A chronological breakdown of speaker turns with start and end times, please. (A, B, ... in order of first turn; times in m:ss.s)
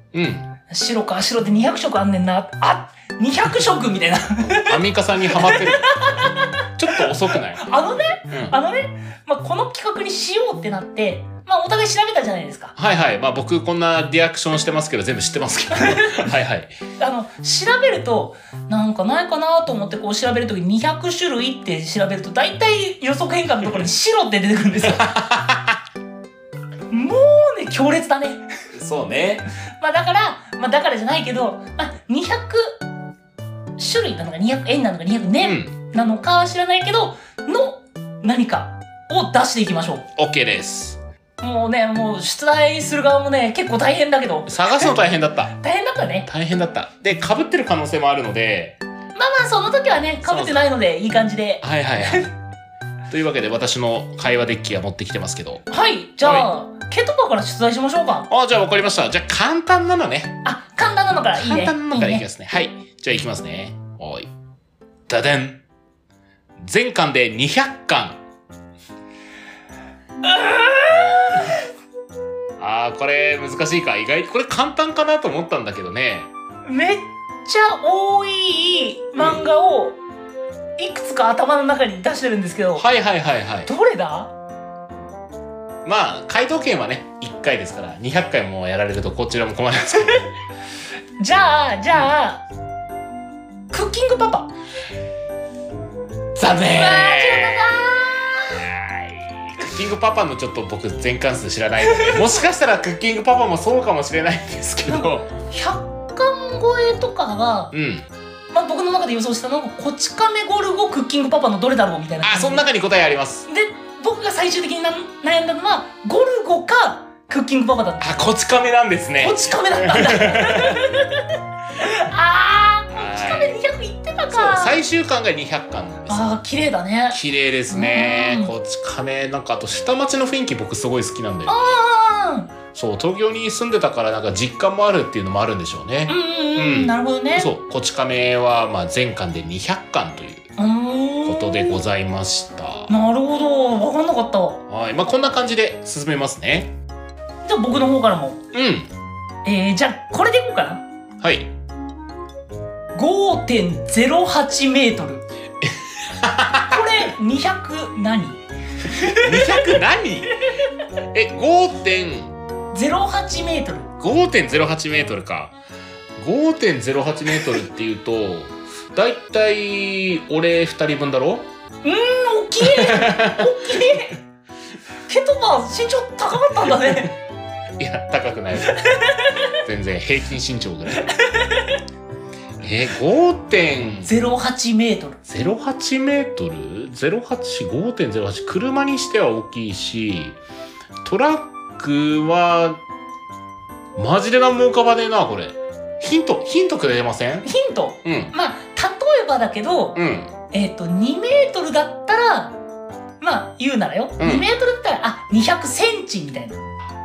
0:00.1-0:00.4 A
0:00.7-0:12.7 B
0:04.4-0:06.1 A
0:06.8-0:07.6 A
0:08.3-0:08.6 A
0:12.8-0:16.7 A
0:15.7-0:16.3 B
0:17.0-0:25.1 B
0:24.8-0:25.8 A
0:26.9-0:28.4 B
0:28.7-0:29.4 A
0:29.8-0:32.8 B
0:33.8-0:40.0 B
0:35.4-0:35.7 A
0:40.2-0:41.0 A
0:41.4-0:44.9 B
0:44.5-0:45.5 A
0:45.6-0:46.3 B
0:46.2-0:48.8 A
0:49.1-0:52.3 B
0:50.2-0:50.6 A
0:51.6-0:52.3 A
0:53.1-0:55.7 A
0:55.7-0:58.3 B
0:56.2-0:56.5 A
0:58.3-1:00.4 A
1:00.4-1:02.2 B
1:01.3-1:04.3 A
1:05.1-1:05.6 A
1:06.6-1:08.2 A
1:10.2-1:11.6 B
1:12.6-1:16.3 A
1:16.6-1:20.0 B
1:19.2-1:19.4 A
1:20.8-1:22.9 B
1:22.8-1:23.7 A
1:23.6-1:24.3 B
1:25.8-1:30.3 A
1:31.2-1:32.4 B
1:33.7-1:34.5 B
1:36.3-1:45.3 A
1:36.7-1:38.6 B
1:41.8-1:42.4 B
1:44.9-1:47.7 B
1:47.7-1:48.0 A
1:48.5-1:52.7 B
1:52.2-1:53.4 A
1:53.5-1:58.3 B
1:58.0-2:00.9 A
1:59.2-2:04.8 B
2:02.9-2:03.5 A
2:04.3-2:06.3 A
2:06.1-2:08.5 B
2:07.1-2:11.7 A
2:11.5-2:12.5 B
2:12.7-2:20.4 A
2:16.1-2:17.5 B
2:20.6-2:21.8 B
2:21.2-2:22.9 A
2:22.9-2:24.6 B
2:24.7-2:26.7 A
2:27.4-2:28.4 B
2:28.5-2:28.9 A
2:29.4-2:30.8 B
2:31.2-2:31.5 A
2:32.9-2:35.2 B
2:35.6-2:36.9 A
2:36.7-2:39.8 B
2:39.1-2:40.4 A
2:41.1-2:42.3 A
2:42.7-2:43.9 B
2:44.0-2:45.5 A
2:46.2-2:51.5 A
2:51.8-2:54.2 B
2:52.6-2:53.6 A
2:55.1-2:57.2 B
2:57.8-2:58.9 A
2:58.7-2:59.5 B
2:59.6-3:01.1 A
3:01.1-3:01.7 B
3:02.6-3:04.1 A
3:04.0-3:05.2 B
3:05.3-3:10.4 A
3:11.0-3:12.8 A
3:14.0-3:17.5 A
3:17.4-3:20.0 B
3:18.0-3:18.3 A
3:19.9-3:20.3 A
3:20.5-3:22.6 B
3:23.2-3:26.6 B
3:24.2-3:24.5 A